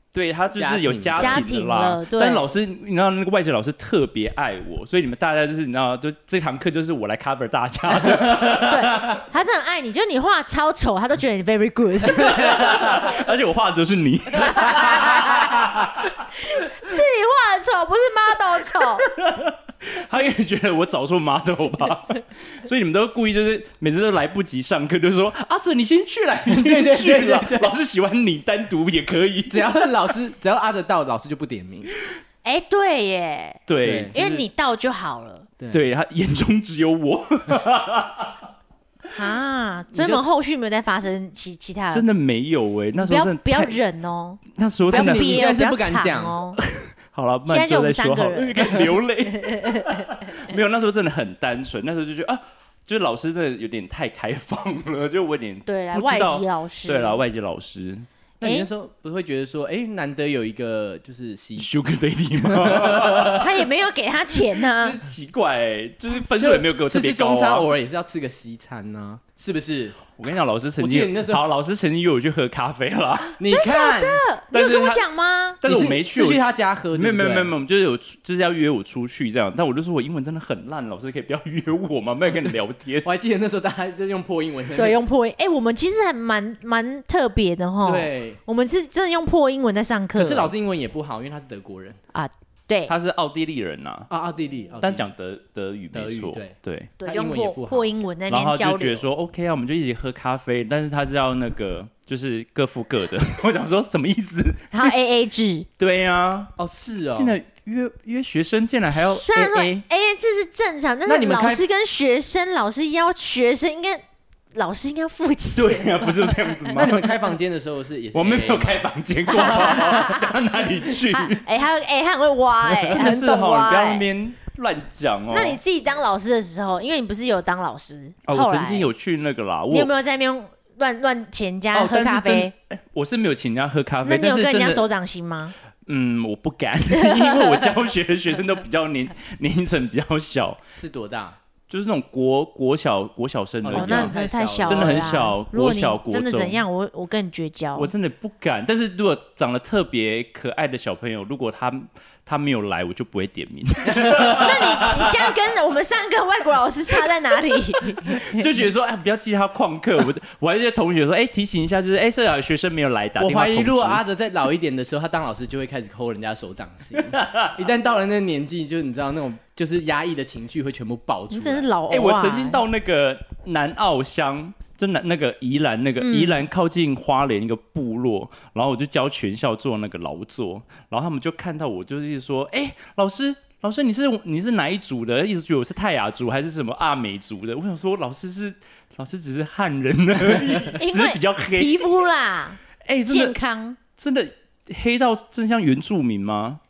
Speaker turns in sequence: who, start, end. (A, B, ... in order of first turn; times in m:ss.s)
0:00.1-0:09.0 A
0:00.5-0:01.4 B
0:01.2-0:02.5 C
0:08.4-0:12.8 C
0:12.0-0:16.1 A
0:14.5-0:15.6 C
0:16.4-0:19.0 C
0:19.0-0:29.9 A
0:26.5-0:27.8 B
0:29.5-0:31.9 B
0:32.4-0:33.6 C
0:33.7-0:34.5 A
0:33.8-0:34.1 B
0:34.1-0:35.5 C
0:35.7-0:38.3 A
0:39.1-0:42.0 C
0:41.9-0:43.8 A
0:43.0-0:46.6 C
0:44.5-0:45.4 A
0:44.9-0:46.4 B
0:46.6-0:58.0 A
0:47.4-0:50.1 C
0:55.7-0:57.2 C
0:58.4-1:01.7 B
0:58.4-0:58.7 C
1:01.6-1:03.6 A
1:02.4-1:03.4 B
1:03.4-1:05.0 C
1:04.8-1:07.7 A
1:06.4-1:10.0 B
1:10.2-1:13.4 A
1:10.8-1:11.4 B
1:13.4-1:14.2 B
1:13.4-1:15.6 C
1:14.5-1:15.0 A
1:15.6-1:23.1 A
1:15.6-1:17.5 B
1:23.0-1:25.0 B
1:24.7-1:30.5 C
1:27.8-1:28.4 B
1:30.2-1:32.0 B
1:32.1-1:32.9 C
1:32.9-1:34.1 A
1:34.1-1:35.1 B
1:34.8-1:36.9 A
1:35.9-1:37.9 B
1:37.0-1:39.0 C
1:38.3-1:44.9 A
1:44.7-1:45.7 C
1:45.8-1:46.5 A
1:46.6-1:47.4 B
1:47.1-1:49.8 A
1:48.9-1:54.0 C
1:51.0-1:51.6 B
1:54.5-1:56.6 C
1:55.6-1:57.1 A
1:56.7-1:58.9 B
1:58.1-2:01.4 A
1:59.3-2:00.3 C
2:01.1-2:04.0 C
2:02.6-2:05.6 A
2:05.3-2:08.9 C
2:08.2-2:09.9 A
2:09.7-2:12.5 C
2:11.7-2:14.8 A
2:14.0-2:15.5 C
2:15.9-2:20.6 A
2:17.0-2:17.6 C
2:20.7-2:21.4 B
2:21.7-2:24.1 A
2:23.6-2:25.1 B
2:23.7-2:27.9 C
2:24.6-2:26.6 A
2:27.8-2:35.3 A
2:34.2-2:38.4 C
2:38.0-2:44.0 A
2:43.2-2:51.7 B
2:47.1-2:47.6 A
2:51.3-2:52.6 C
2:51.9-3:11.9 A
2:56.0-2:56.4 C
3:10.8-3:13.8 C
3:12.8-3:13.4 A
3:13.9-3:16.6 A